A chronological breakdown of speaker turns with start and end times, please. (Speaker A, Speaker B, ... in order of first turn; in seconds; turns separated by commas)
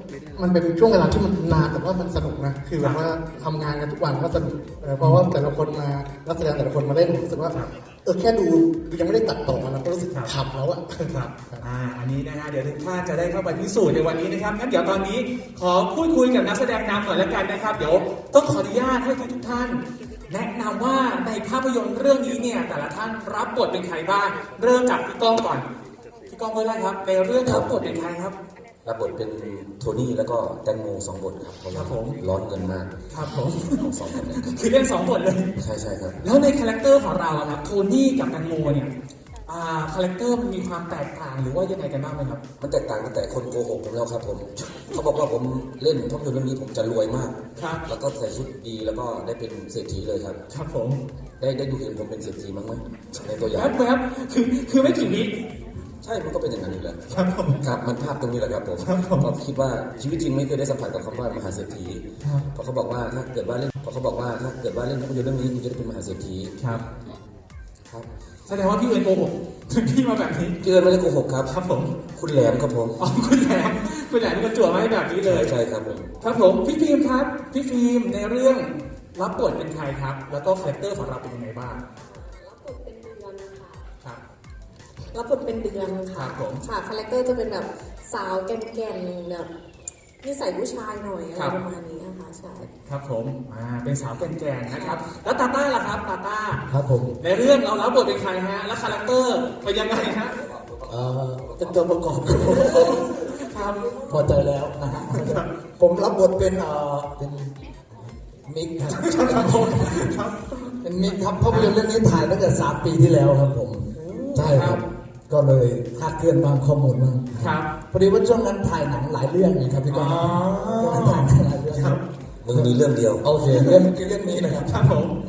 Speaker A: 0.3-11.6, Speaker B: 11.1-25.7, Speaker B: 26.3-28.4, Speaker C: 27.4-27.7, Speaker C: 28.8-33.0, Speaker B: 31.7-32.2, Speaker B: 33.1-35.5, Speaker C: 33.6-34.5, Speaker C: 35.6-36.2, Speaker B: 36.2-38.9, Speaker B: 39.5-42.4, Speaker C: 42.6-50.4, Speaker B: 47.5-47.8, Speaker B: 50.5-51.0, Speaker C: 51.4-53.8, Speaker B: 53.2-55.4, Speaker C: 56.0-66.6, Speaker B: 57.1-57.6, Speaker B: 58.8-59.3, Speaker B: 62.2-62.5, Speaker B: 66.6-66.9, Speaker B: 68.5-70.6, Speaker C: 70.6-71.5, Speaker B: 71.5-72.0, Speaker C: 72.1-73.0, Speaker B: 73.0-75.5, Speaker C: 75.2-76.1, Speaker B: 76.2-81.8, Speaker D: 82.0-83.8, Speaker D: 85.1-89.5, Speaker B: 86.1-86.6, Speaker D: 90.2-92.7, Speaker B: 91.3-91.6, Speaker B: 92.8-96.6, Speaker D: 94.7-95.0, Speaker E: 96.6-97.2, Speaker B: 97.2-100.4, Speaker C: 100.4-101.8, Speaker E: 100.9-103.1, Speaker B: 102.5-104.0, Speaker E: 104.1-110.1, Speaker B: 105.1-105.5, Speaker B: 108.9-110.6, Speaker E: 110.8-124.8, Speaker B: 114.0-114.8, Speaker B: 117.3-117.7, Speaker B: 119.9-122.0, Speaker C: 122.4-123.3, Speaker B: 123.5-123.8, Speaker B: 124.6-125.1